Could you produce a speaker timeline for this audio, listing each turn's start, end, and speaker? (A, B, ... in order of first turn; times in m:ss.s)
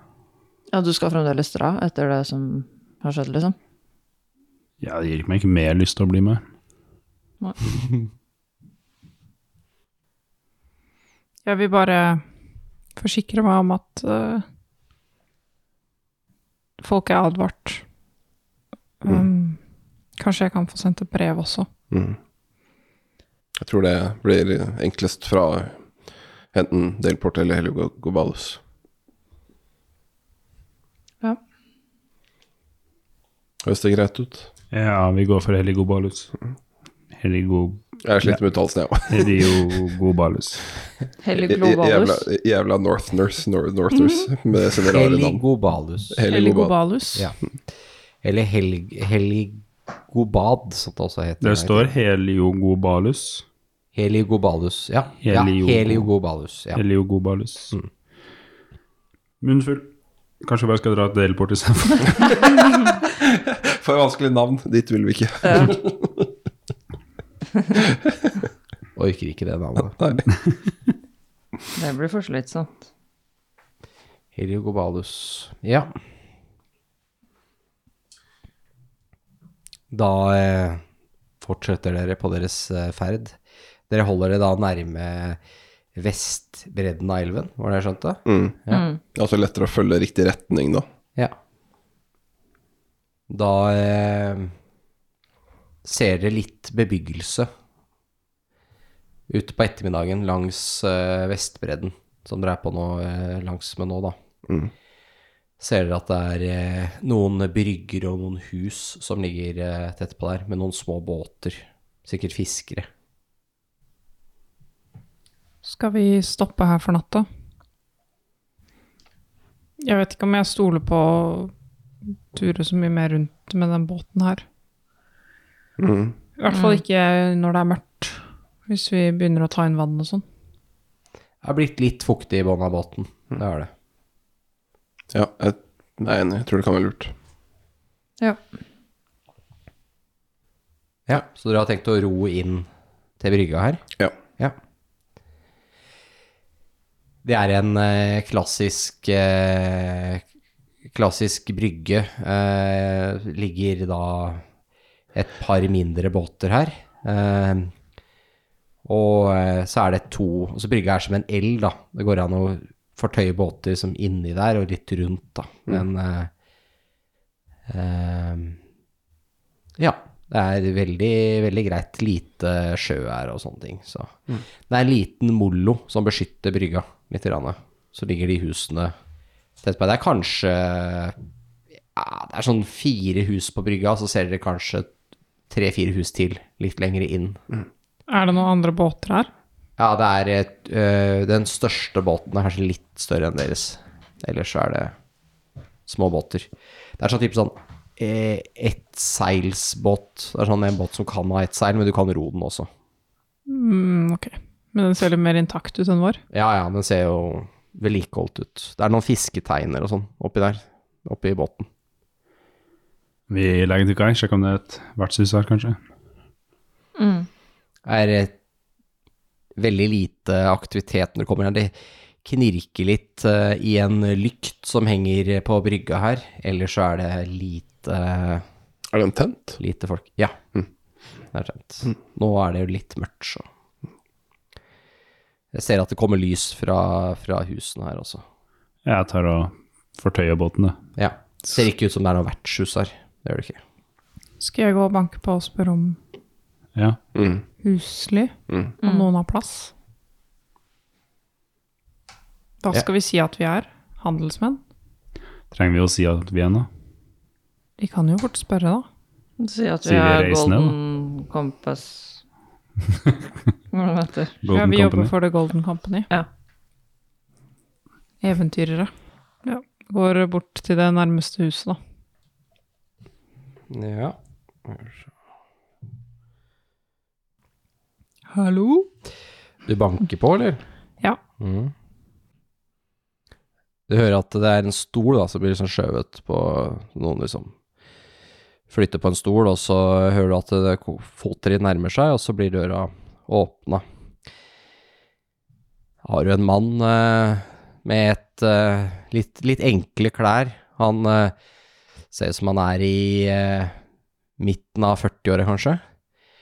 0:00.7-0:03.6 A
0:04.8-0:06.4 B
0:11.4-0:12.2 C
0:13.0-0:14.4 C
0:16.8-0:17.8 C
0:19.0-0:19.6 C
0:20.2-0:21.7 C
0:21.9-0:22.2 D
0:23.6-0:25.8 D
0:26.5-0:28.6 D
0:33.6-0:34.5 D
0:34.7-0:36.3 B
0:37.1-0:38.4 B
0:38.0-0:39.8 D
0:39.1-0:40.7 B
0:41.2-0:42.2 A
0:41.5-0:45.4 D
0:44.9-0:46.2 E
0:46.1-0:46.7 D
0:46.3-0:47.3 C
0:48.2-0:51.9 E
0:51.4-0:53.4 B
0:53.9-0:56.8 E
0:55.2-0:56.1 B
0:56.7-0:57.7 B
0:59.4-0:59.9 B
1:00.4-1:02.5 B
1:03.1-1:06.3 D
1:05.4-1:05.8 A
1:07.8-1:08.4 D
1:09.0-1:10.0 E
1:09.9-1:10.2 D
1:11.7-1:12.8 A
1:14.3-1:15.9 E
1:19.9-1:20.8 E
1:21.4-1:23.4 E
1:23.9-1:25.4 E
1:25.9-1:28.9 E
1:28.2-1:28.6 D
1:28.7-1:29.0 A
1:29.1-1:30.8 D
1:33.3-1:34.5 E
1:35.8-1:37.5 E
1:39.3-1:44.2 E
1:44.5-1:44.7 D
1:45.6-1:52.9 E
1:55.6-1:57.3 C
1:59.8-2:01.5 C
2:02.3-2:04.4 C
2:05.8-2:06.2 D
2:06.4-2:10.2 C
2:06.5-2:06.8 A
2:11.4-2:13.7 E
2:15.1-2:17.1 D
2:21.1-2:22.7 E
2:23.2-2:23.8 E
2:27.2-2:30.2 E
2:30.9-2:34.4 E
2:35.1-2:37.7 E
2:38.8-2:46.3 E
2:47.7-2:48.6 E
2:49.8-2:58.9 E
2:59.6-3:01.1 E
3:01.9-3:04.9 E
3:05.5-3:07.4 E
3:08.1-3:09.3 C
3:09.8-3:14.9 E
3:15.9-3:22.7 E
3:23.5-3:26.2 C
3:26.3-3:31.7 E
3:33.3-3:35.8 B
3:37.0-3:37.3 A
3:37.8-3:38.3 E
3:39.6-3:41.7 E
3:42.2-3:48.4 E
3:48.9-3:49.6 D
3:49.6-3:50.4 E
3:51.3-3:53.5 E
3:55.5-3:58.2 E
3:58.8-4:00.8 B
4:01.0-4:03.6 E
4:04.4-4:06.0 C
4:07.1-4:07.4 D
4:07.6-4:09.7 C
4:12.6-4:14.6 C
4:15.5-4:16.7 B
4:17.8-4:18.8 C
4:19.4-4:22.2 A
4:19.8-4:20.7 B
4:23.7-4:24.4 A
4:24.4-4:25.1 B
4:24.5-4:26.1 C
4:28.2-4:28.9 C
4:29.4-4:31.8 C
4:33.7-4:34.2 E
4:38.3-4:38.9 C
4:39.7-4:40.6 E
4:41.4-4:41.7 E
4:43.9-4:47.5 E
4:48.7-4:53.8 E
4:56.0-5:01.3 E
5:02.1-5:03.8 E
5:04.4-5:05.8 E